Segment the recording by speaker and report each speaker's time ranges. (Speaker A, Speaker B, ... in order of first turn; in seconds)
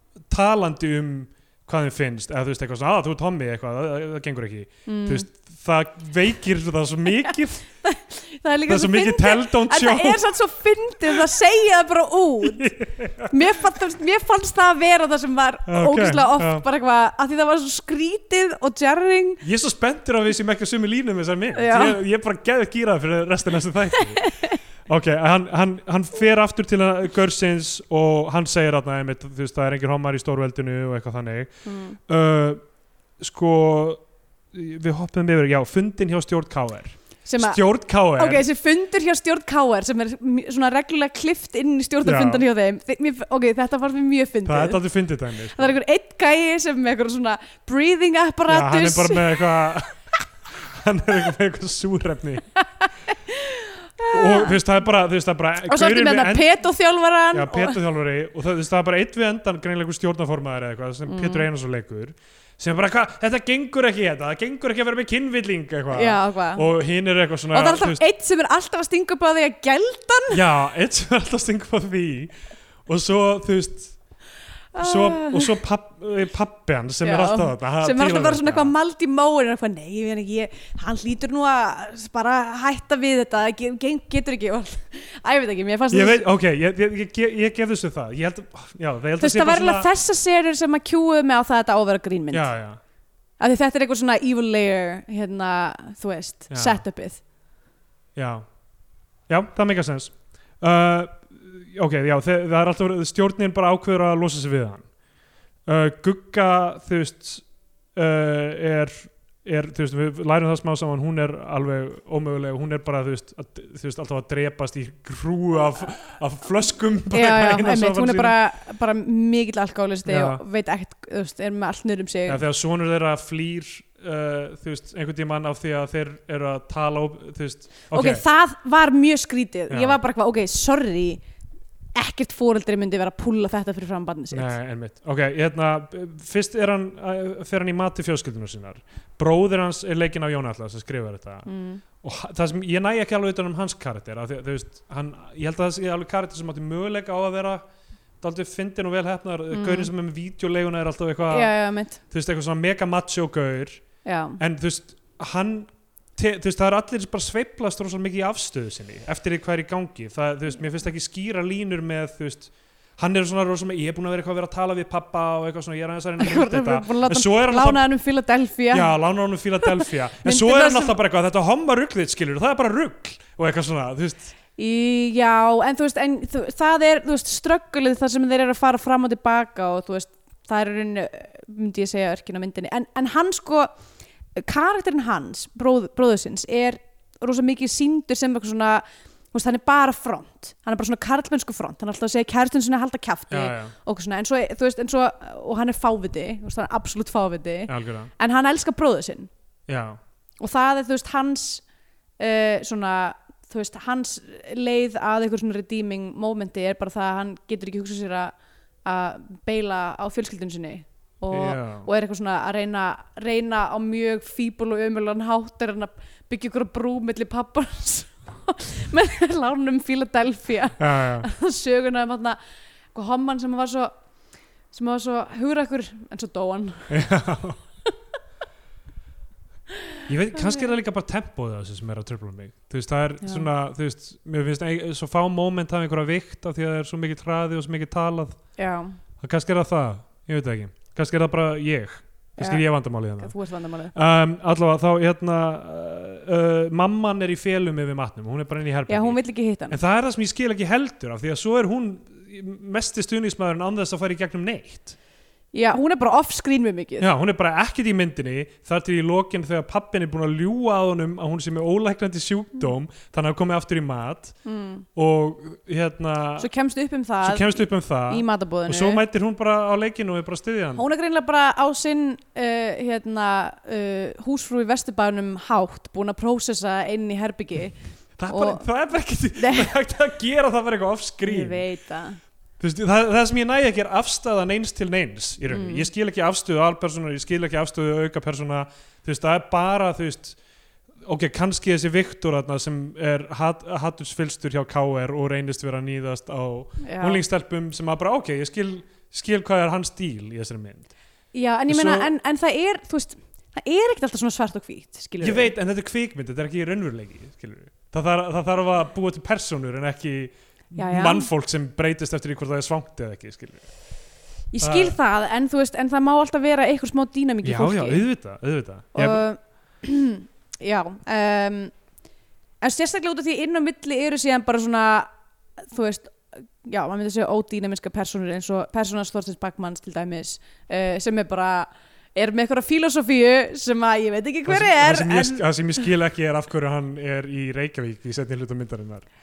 Speaker A: 0.3-7.7, 8.7-10.3, 12.4-13.8, 15.7-16.7, 19.4-32.6, 33.2-38.5, 42.0-42.5, 44.5-45.8, 48.5-50.0, 50.5-52.5, 54.1-56.5, 57.3-68.0, 70.3-72.3, 72.9-74.0, 74.8-78.7, 85.9-89.9, 92.3-92.8, 96.5-96.8, 98.2-98.5, 99.3-104.9, 105.7-118.4, 120.1-120.4, 122.3-128.2, 129.7-130.0, 134.3-141.5, 142.0-147.7, 148.2-153.8, 154.4-167.9, 168.7-174.3, 193.3-193.7, 197.7-198.1, 199.7-200.0, 211.3-211.9, 220.8-221.3, 226.9-227.6, 230.1-238.5, 239.2-243.3, 243.9-249.2, 249.7-255.0, 257.0-264.4, 264.9-266.5, 267.2-270.9, 278.2-281.6, 282.6-290.4, 291.0-300.9, 301.7-302.1, 305.2-313.7, 314.6-315.0, 317.4-319.2, 334.5-339.1
Speaker B: 4.9-5.3, 7.8-12.7, 13.3-19.4, 21.6-22.0, 24.2-24.6, 31.6-32.0, 37.3-44.8, 45.5-49.4, 52.8-54.6, 55.7-57.8, 61.1-61.5, 65.9-66.7, 67.5-70.4, 74.7-75.6, 77.0-86.2, 89.2-92.5, 93.4-97.2, 117.1-122.4, 127.9-131.2, 131.9-134.5, 141.5-141.8, 149.5-149.9, 151.3-152.0, 154.1-154.4, 166.2-168.9, 169.6-171.0, 174.6-183.7, 184.4-199.3, 200.4-201.6, 202.2-222.4, 222.9-223.9, 224.7-227.0, 230.4-230.7, 233.2-233.5, 238.6-239.0, 242.4-242.6, 243.2-243.9, 248.9-249.8, 255.5-257.1, 264.4-264.9, 266.4-269.0, 270.8-277.8, 278.3-278.7, 279.4-279.7, 281.2-282.2, 285.5-285.9, 296.8-297.2, 301.3-305.5, 310.7-311.3, 314.5-318.0, 318.9-321.7, 322.6-325.1, 325.7-335.4